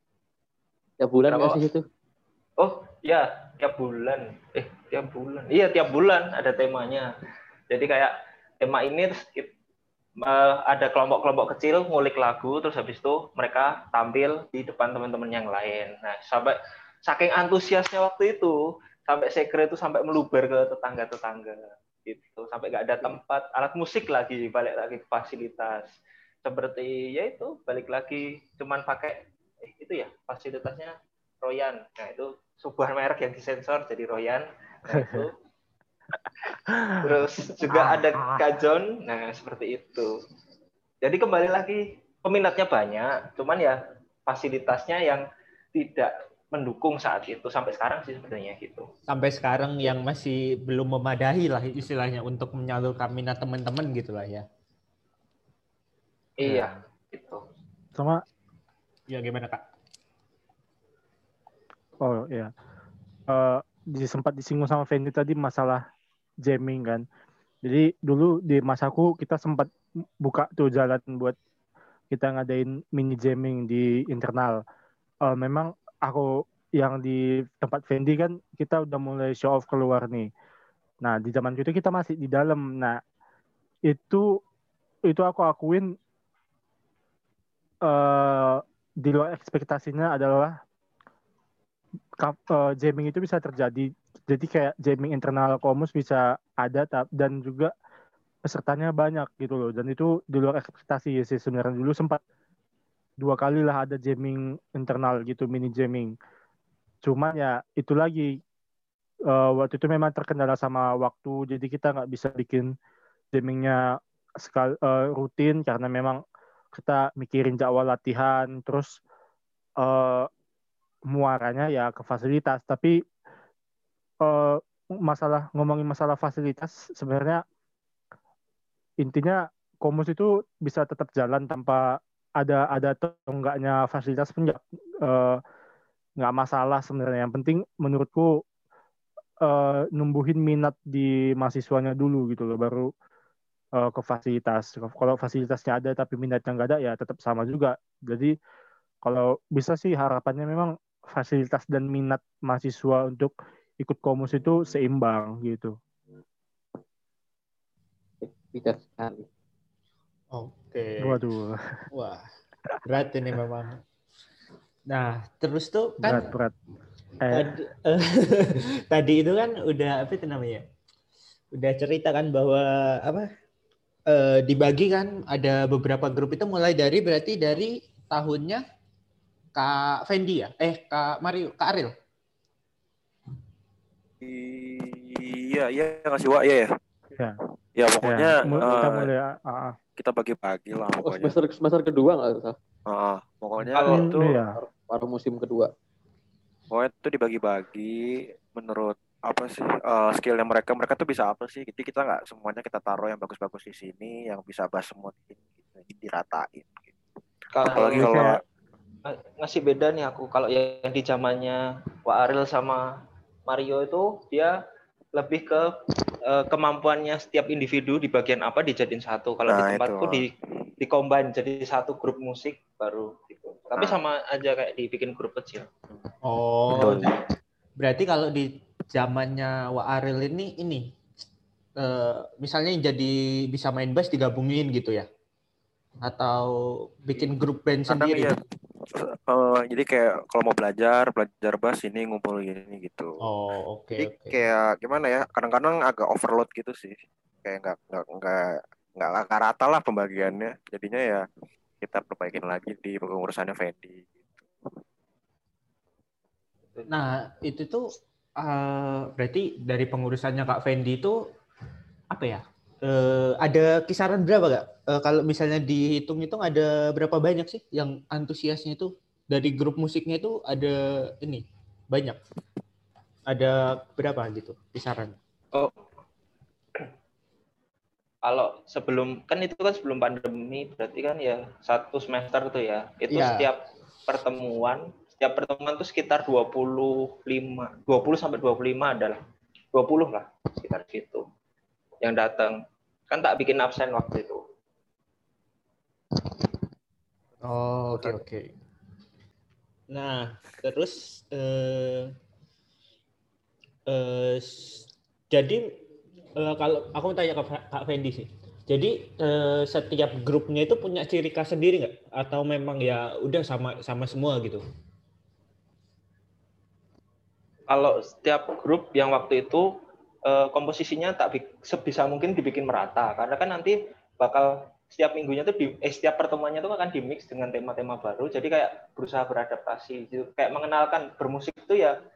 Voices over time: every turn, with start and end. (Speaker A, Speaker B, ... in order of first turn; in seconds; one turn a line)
Speaker A: 1.0-1.8
Speaker B: 1.3-1.6
Speaker B: 2.6-7.1
Speaker B: 7.7-9.5
Speaker B: 10.2-35.4
Speaker C: 34.9-35.2
Speaker C: 36.7-38.5
Speaker B: 37.0-40.1
Speaker B: 41.0-48.9
Speaker D: 49.1-54.5
Speaker B: 56.4-57.4
Speaker C: 56.4-56.7
Speaker C: 58.0-58.2
Speaker D: 59.1-59.6
Speaker C: 62.0-62.5
Speaker C: 63.3-65.8
Speaker C: 66.4-67.0
Speaker C: 67.6-71.4
Speaker C: 72.1-74.6
Speaker C: 75.2-80.3
Speaker C: 81.0-83.0
Speaker C: 83.9-84.3
Speaker C: 85.1-85.9
Speaker C: 87.8-90.6
Speaker C: 92.2-97.7
Speaker C: 98.5-102.2
Speaker C: 103.2-106.1
Speaker C: 107.0-108.4
Speaker C: 109.3-112.7
Speaker C: 113.3-116.2
Speaker C: 116.7-119.0
Speaker C: 119.8-120.3
Speaker C: 121.1-123.0
Speaker C: 124.2-127.4
Speaker C: 129.0-135.4
Speaker C: 136.2-138.3
Speaker C: 139.4-142.9
Speaker C: 143.8-148.3
Speaker C: 149.0-155.8
Speaker A: 158.2-159.3
Speaker D: 160.3-161.2
Speaker C: 161.0-161.6
Speaker D: 161.9-162.2
Speaker D: 162.9-163.8
Speaker D: 164.9-166.3
Speaker C: 166.0-166.5
Speaker C: 167.2-167.5
Speaker D: 167.3-170.6
Speaker D: 171.5-173.3
Speaker D: 174.1-178.6
Speaker D: 179.6-181.9
Speaker E: 184.2-186.7
Speaker E: 187.8-189.1
Speaker C: 188.0-189.8
Speaker E: 190.0-191.4
Speaker A: 191.0-192.6
Speaker E: 192.9-194.4
Speaker B: 193.8-194.1
Speaker C: 193.8-194.6
Speaker A: 194.5-195.7
Speaker E: 196.7-206.9
Speaker B: 207.5-208.3
Speaker E: 207.7-208.4
Speaker C: 207.8-208.2
Speaker B: 209.1-212.8
Speaker B: 213.5-214.6
Speaker B: 215.1-215.7
Speaker B: 216.3-225.7
Speaker E: 219.5-220.3
Speaker E: 223.8-224.0
Speaker D: 226.2-227.1
Speaker E: 226.8-227.1
Speaker D: 227.8-230.9
Speaker D: 231.8-235.1
Speaker D: 236.1-238.3
Speaker E: 237.9-243.2
Speaker D: 243.2-244.4
Speaker E: 244.0-251.3
Speaker E: 251.8-254.4
Speaker D: 256.9-261.2
Speaker D: 262.1-272.2
Speaker D: 273.3-275.2
Speaker B: 278.2-289.2
Speaker D: 283.1-283.5
Speaker B: 289.7-291.2
Speaker B: 292.0-292.6
Speaker B: 293.1-294.4
Speaker D: 297.4-298.5
Speaker D: 299.9-302.1
Speaker D: 303.9-305.7
Speaker D: 306.4-314.6
Speaker B: 317.7-319.7
Speaker B: 320.3-331.9